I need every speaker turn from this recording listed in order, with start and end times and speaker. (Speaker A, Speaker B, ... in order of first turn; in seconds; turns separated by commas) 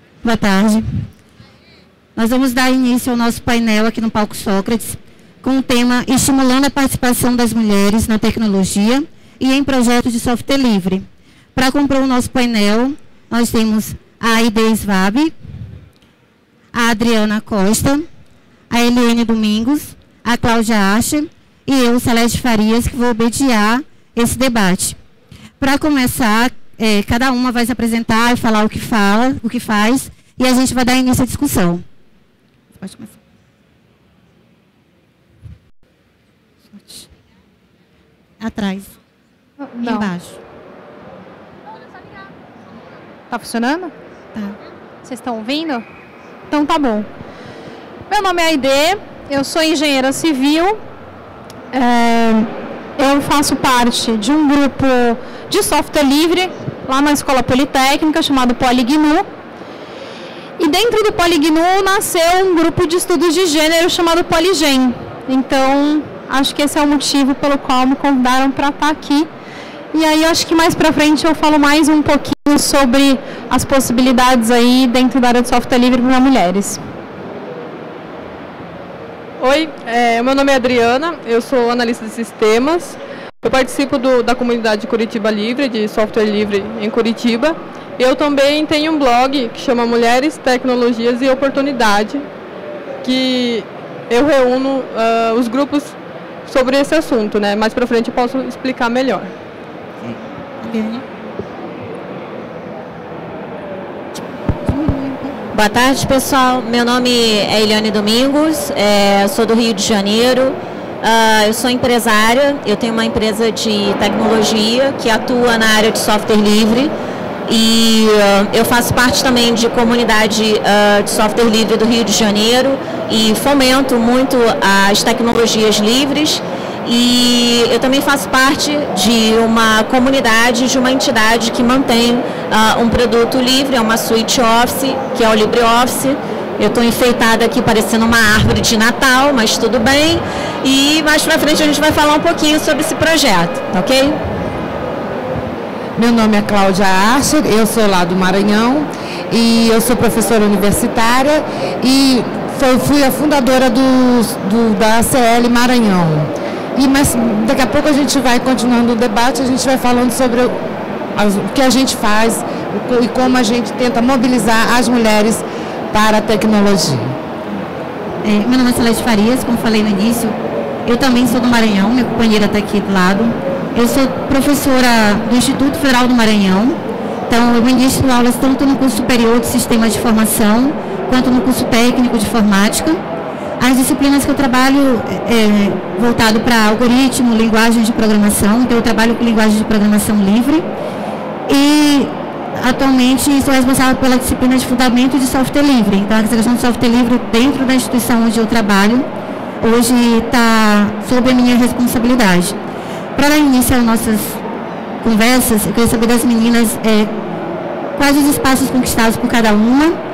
Speaker A: 0.2-1.1, Speaker A: 2.1-15.3, Speaker A: 16.7-18.1, Speaker A: 18.7-25.0, Speaker A: 25.6-31.8, Speaker A: 32.7-33.2, Speaker A: 36.7-37.1, Speaker A: 38.4-39.0, Speaker B: 39.6-40.1, Speaker A: 39.8-40.4, Speaker B: 43.3-43.9, Speaker B: 45.0-45.8, Speaker B: 46.5-47.1, Speaker B: 48.1-50.8, Speaker B: 51.7-59.2, Speaker B: 60.6-69.3, Speaker B: 69.9-76.8, Speaker C: 79.4-92.2, Speaker C: 93.0-95.9, Speaker C: 96.5-99.3, Speaker A: 100.0-101.0, Speaker A: 104.6-105.4, Speaker D: 105.5-116.9, Speaker D: 117.5-144.2, Speaker E: 146.0-160.5, Speaker E: 161.1-167.2, Speaker A: 168.2-183.0, Speaker A: 183.6-190.7, Speaker A: 191.5-199.0, Speaker A: 199.6-202.6, Speaker A: 203.2-204.4, Speaker A: 205.0-207.1, Speaker A: 207.9-210.0